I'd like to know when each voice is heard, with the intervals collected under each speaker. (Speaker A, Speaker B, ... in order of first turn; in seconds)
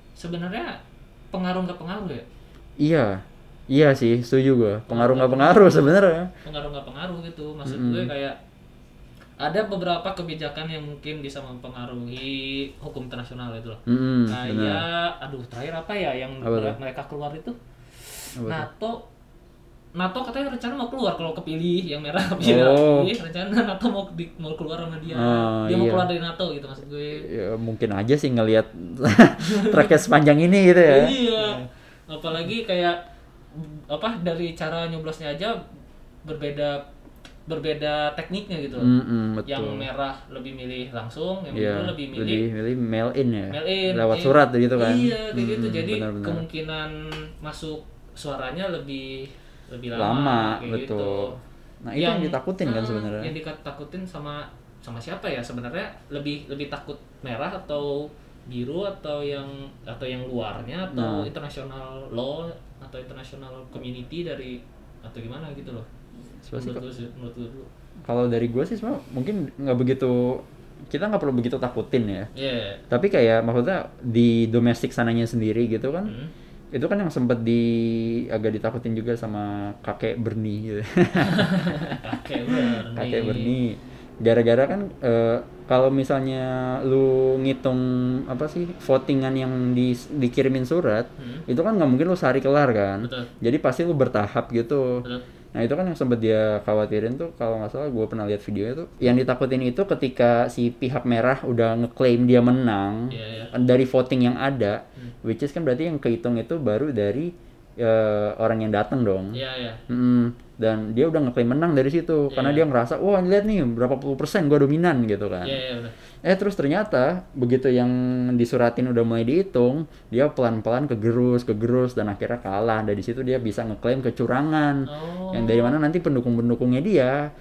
Speaker A: 0.2-0.8, 1.3-2.3, 4.9-5.9, 6.4-8.4, 9.4-19.0, 20.0-27.3, 29.4-29.9, 30.9-33.0, 33.5-35.6, 36.2-36.9, 37.5-38.9, 39.5-42.5, 43.5-51.4, 52.0-65.9, 66.6-67.7, 72.3-72.8, 76.1-76.3, 81.2-83.5, 91.2-91.5, 93.0-93.3, 103.1-103.5, 109.3-109.8, 112.3-112.6, 115.4-116.0, 124.9-125.8
Speaker B: 2.8-6.3, 7.7-8.1, 13.9-14.8, 16.4-16.8, 18.4-18.7, 22.4-23.1, 25.1-26.1, 27.1-31.6, 38.8-39.9, 41.5-46.5, 50.0-53.3, 60.9-61.3, 66.4-66.9, 68.1-72.3, 72.9-76.2, 76.7-81.8, 82.5-95.0, 95.5-115.6, 116.2-127.3